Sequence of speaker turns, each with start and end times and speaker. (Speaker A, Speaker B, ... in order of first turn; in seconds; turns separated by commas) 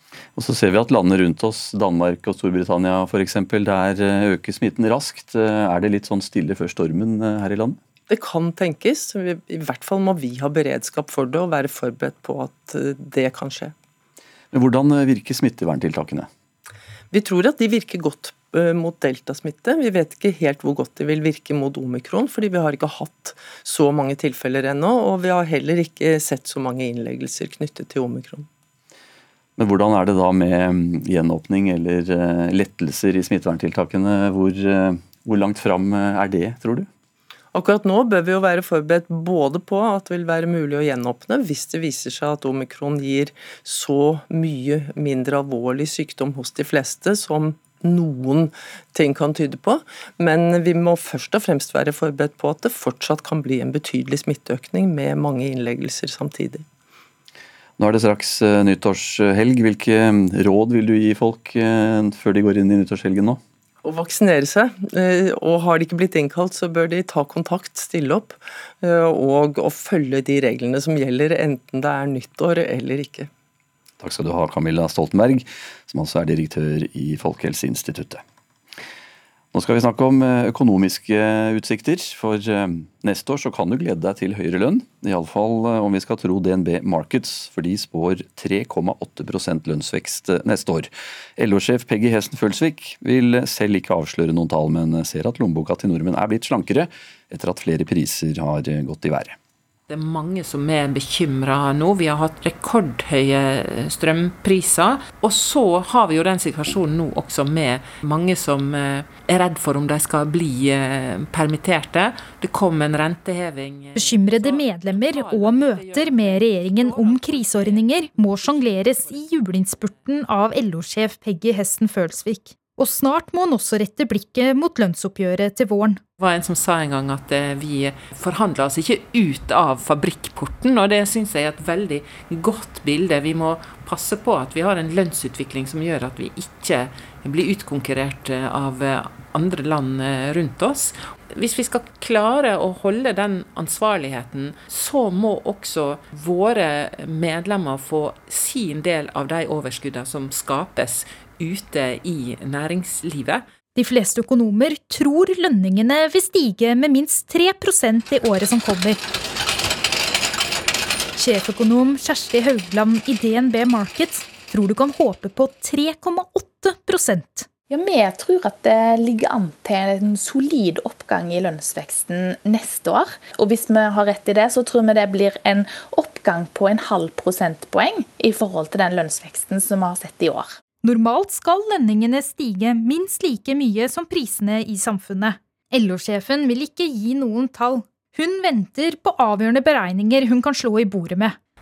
Speaker A: 0.4-7.8, Speaker B: 8.1-13.7, Speaker A: 14.5-16.3, Speaker B: 17.1-28.5, Speaker A: 29.6-36.9, Speaker B: 37.5-56.6, Speaker A: 57.8-63.4, Speaker B: 63.8-73.3, Speaker A: 74.0-78.2, Speaker A: 79.5-99.4, Speaker C: 99.9-118.1, Speaker D: 114.0-126.0, Speaker C: 126.2-153.5, Speaker D: 153.8-159.0, Speaker D: 161.2-167.5, Speaker E: 167.7-180.5, Speaker D: 180.8-191.4